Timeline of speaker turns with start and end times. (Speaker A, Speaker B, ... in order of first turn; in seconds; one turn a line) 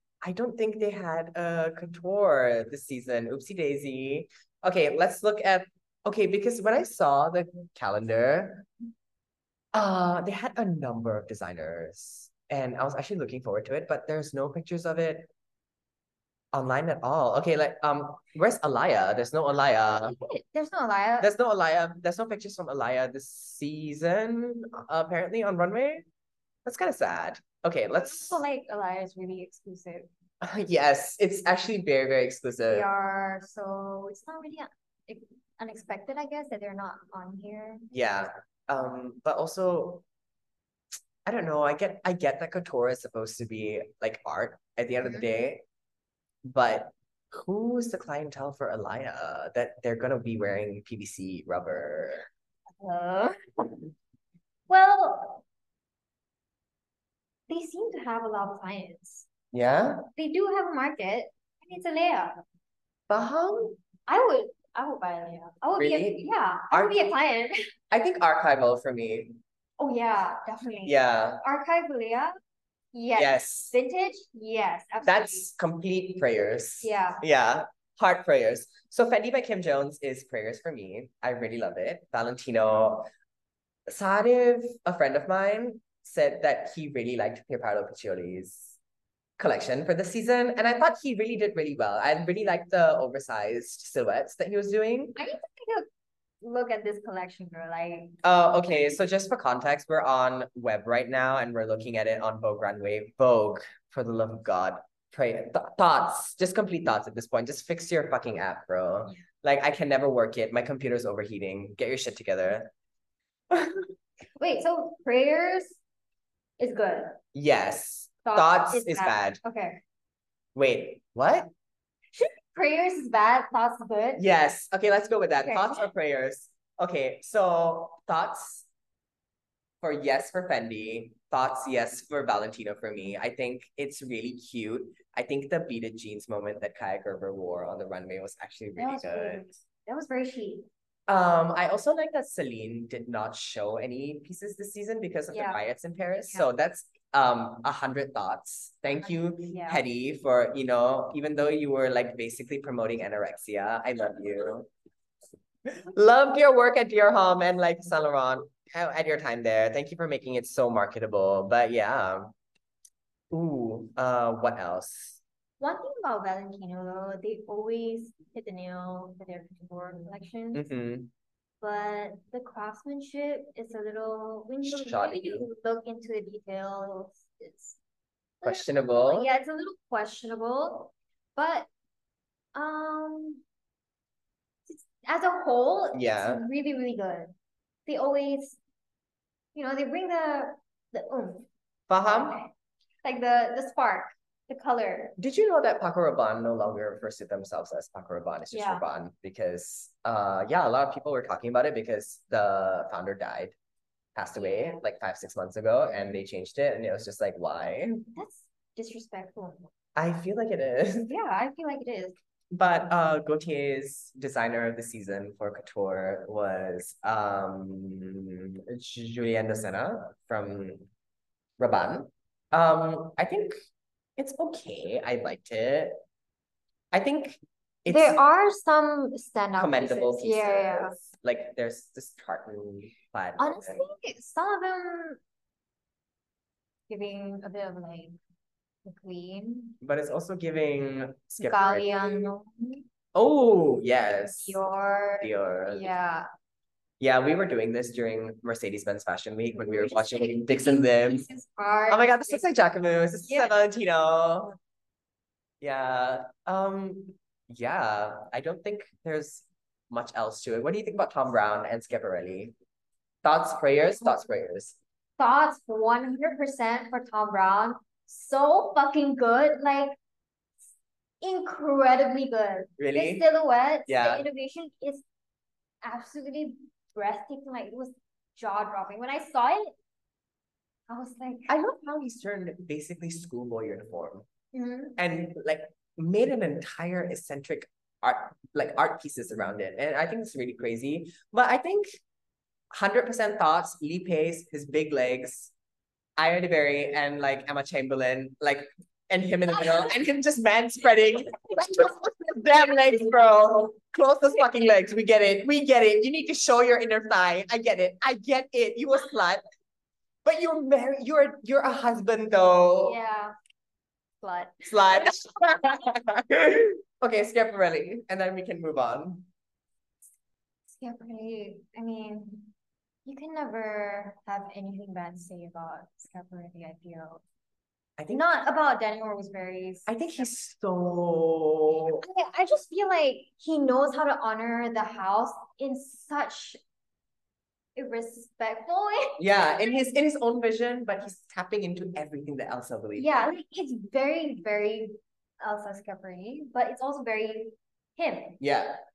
Speaker A: 0.2-8.7
Speaker A: 9.7-15.3
Speaker A: 16.5-20.2
Speaker B: 20.0-21.3
Speaker A: 21.2-26.0
Speaker A: 26.6-28.4
Speaker B: 28.0-30.1
Speaker A: 30.4-32.9
Speaker B: 32.7-37.9
Speaker A: 37.9-40.0
Speaker A: 41.2-45.6
Speaker B: 45.0-45.3
Speaker A: 46.4-52.3
Speaker B: 52.8-53.8
Speaker B: 54.7-55.4
Speaker B: 57.5-59.2
Speaker A: 59.5-60.0
Speaker B: 60.1-62.4
Speaker A: 63.1-63.8
Speaker B: 64.1-67.6
Speaker A: 65.8-67.0
Speaker A: 67.9-69.4
Speaker B: 69.8-72.4
Speaker A: 70.8-71.4
Speaker B: 72.9-75.5
Speaker A: 73.2-73.7
Speaker A: 75.0-83.1
Speaker B: 76.8-77.2
Speaker A: 83.9-88.8
Speaker A: 89.4-95.1
Speaker B: 95.2-95.9
Speaker B: 96.4-98.2
Speaker A: 98.2-112.7
Speaker A: 113.5-113.9
Speaker B: 114.4-115.8
Speaker B: 116.6-117.2
Speaker A: 117.3-119.4
Speaker B: 118.2-119.8
Speaker A: 120.5-121.5
Speaker B: 122.1-124.2
Speaker A: 124.2-128.7
Speaker B: 125.4-125.9
Speaker A: 129.8-139.4
Speaker B: 138.8-140.7
Speaker A: 141.1-154.7
Speaker B: 145.3-145.6
Speaker B: 149.0-149.8
Speaker A: 155.7-162.3
Speaker A: 163.3-165.2
Speaker B: 165.6-170.7
Speaker A: 170.5-171.1
Speaker B: 171.6-177.8
Speaker A: 174.6-175.5
Speaker B: 178.4-181.7
Speaker A: 178.4-179.3
Speaker B: 182.5-183.4
Speaker B: 184.7-187.3
Speaker A: 185.9-186.4
Speaker B: 187.9-188.6
Speaker B: 189.5-191.5
Speaker A: 191.9-192.4
Speaker B: 192.1-192.5
Speaker B: 193.0-195.2
Speaker A: 195.2-203.5
Speaker B: 198.5-198.8
Speaker A: 204.1-208.0
Speaker B: 204.3-204.8
Speaker B: 208.1-209.7
Speaker A: 209.9-211.1
Speaker B: 211.1-212.2
Speaker A: 212.5-220.8
Speaker A: 221.6-223.6
Speaker A: 224.2-225.9
Speaker A: 226.9-228.2
Speaker B: 227.9-230.9
Speaker A: 229.6-233.8
Speaker B: 233.4-235.2
Speaker B: 236.9-238.2
Speaker B: 238.8-239.8
Speaker A: 239.8-242.3
Speaker B: 241.4-242.8
Speaker A: 243.1-244.6
Speaker B: 244.4-246.3
Speaker A: 245.2-245.9
Speaker A: 247.0-251.2
Speaker B: 249.5-252.4
Speaker A: 251.9-254.6
Speaker B: 253.2-253.5
Speaker A: 255.6-262.5
Speaker A: 263.2-264.8
Speaker B: 265.2-270.0
Speaker B: 271.2-275.0
Speaker A: 272.8-273.2
Speaker A: 273.9-274.2
Speaker B: 275.8-279.7
Speaker B: 280.9-281.5
Speaker A: 281.5-284.2
Speaker B: 284.5-285.0
Speaker A: 285.0-291.9
Speaker A: 292.7-295.5
Speaker A: 296.2-309.4
Speaker A: 310.2-313.0
Speaker B: 312.8-313.3
Speaker B: 314.2-315.2
Speaker A: 314.6-319.3
Speaker B: 320.8-322.5
Speaker B: 323.1-327.2
Speaker A: 328.0-328.2
Speaker B: 328.1-330.3
Speaker A: 329.9-332.0
Speaker B: 332.0-336.6
Speaker B: 337.8-339.7
Speaker A: 339.2-343.2
Speaker B: 342.9-348.4
Speaker A: 348.4-348.8